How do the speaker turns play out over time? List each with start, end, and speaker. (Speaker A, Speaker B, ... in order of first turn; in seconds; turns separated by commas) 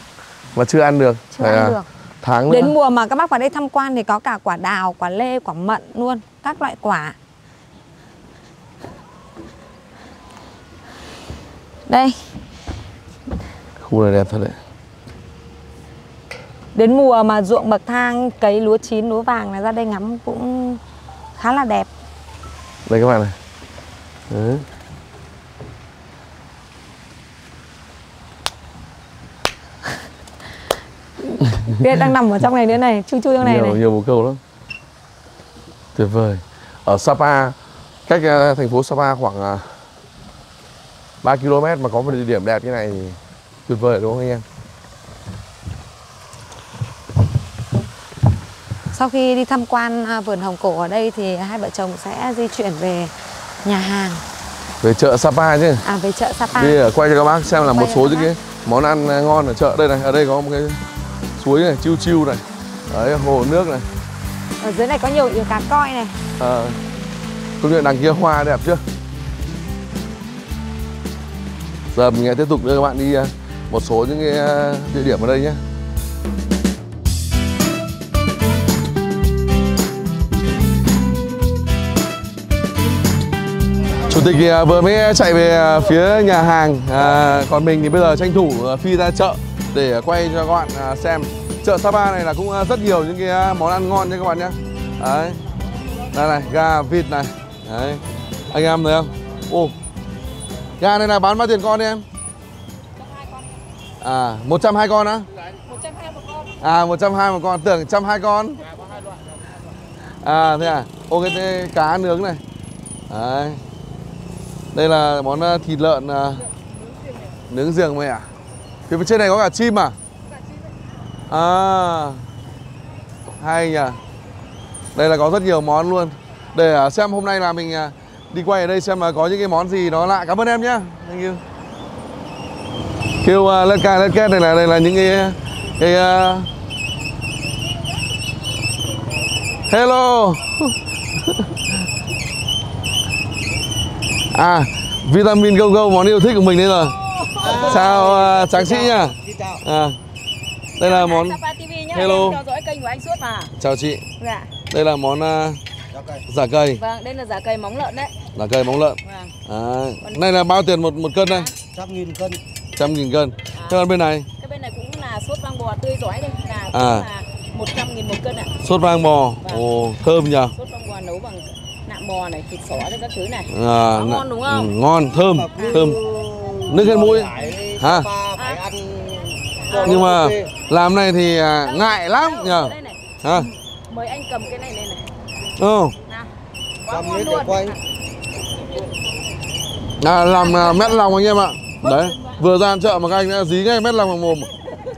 Speaker A: 0.6-2.7, Speaker B: 1.3-1.9, Speaker B: 2.5-7.2, Speaker B: 11.9-12.2, Speaker A: 13.8-14.6, Speaker B: 16.8-20.8, Speaker B: 21.4-21.9, Speaker A: 22.9-23.3, Speaker A: 24.3-24.6, Speaker B: 31.2-33.8, Speaker A: 33.4-34.4, Speaker A: 36.0-37.6, Speaker A: 38.1-39.7, Speaker A: 41.2-44.4, Speaker B: 48.9-54.2, Speaker A: 54.8-55.8, Speaker B: 55.8-56.8, Speaker A: 56.5-60.8, Speaker B: 57.5-58.3, Speaker A: 61.4-63.9, Speaker B: 64.6-66.2, Speaker A: 66.4-66.8, Speaker A: 67.6-68.8, Speaker A: 71.9-75.6, Speaker A: 84.1-95.4, Speaker A: 96.1-99.7, Speaker A: 100.8-102.0, Speaker C: 103.0-103.6, Speaker A: 104.0-105.3, Speaker C: 105.5-106.5, Speaker A: 106.6-108.6, Speaker A: 110.2-112.4, Speaker A: 113.1-113.6, Speaker A: 114.7-116.5, Speaker A: 117.5-118.3, Speaker A: 118.9-120.0, Speaker A: 121.3-122.2, Speaker A: 123.4-124.0, Speaker A: 125.0-131.4, Speaker A: 133.2-136.5, Speaker A: 139.7-141.5, Speaker A: 144.3-147.0, Speaker C: 147.1-147.9, Speaker D: 147.4-149.6, Speaker A: 147.6-150.0, Speaker A: 150.8-151.4, Speaker C: 150.8-153.5, Speaker A: 151.9-152.4, Speaker A: 153.6-154.0, Speaker C: 154.2-154.5, Speaker A: 154.7-155.6, Speaker D: 155.9-156.2, Speaker A: 156.3-156.8, Speaker C: 156.8-158.1, Speaker A: 158.3-161.5, Speaker C: 159.0-159.3, Speaker D: 161.7-162.4, Speaker A: 162.8-164.2, Speaker C: 163.5-163.8, Speaker C: 164.4-168.5, Speaker A: 166.7-167.1, Speaker A: 168.6-170.5, Speaker C: 170.5-174.7, Speaker A: 173.5-176.0, Speaker D: 175.3-180.5, Speaker C: 175.6-175.8, Speaker A: 176.7-178.1, Speaker C: 178.3-178.6, Speaker C: 179.6-180.1, Speaker A: 179.7-183.5, Speaker C: 181.6-185.1, Speaker A: 185.6-185.9, Speaker C: 186.8-187.8, Speaker D: 186.9-187.8, Speaker A: 190.0-194.5, Speaker C: 190.4-190.9, Speaker C: 191.8-192.4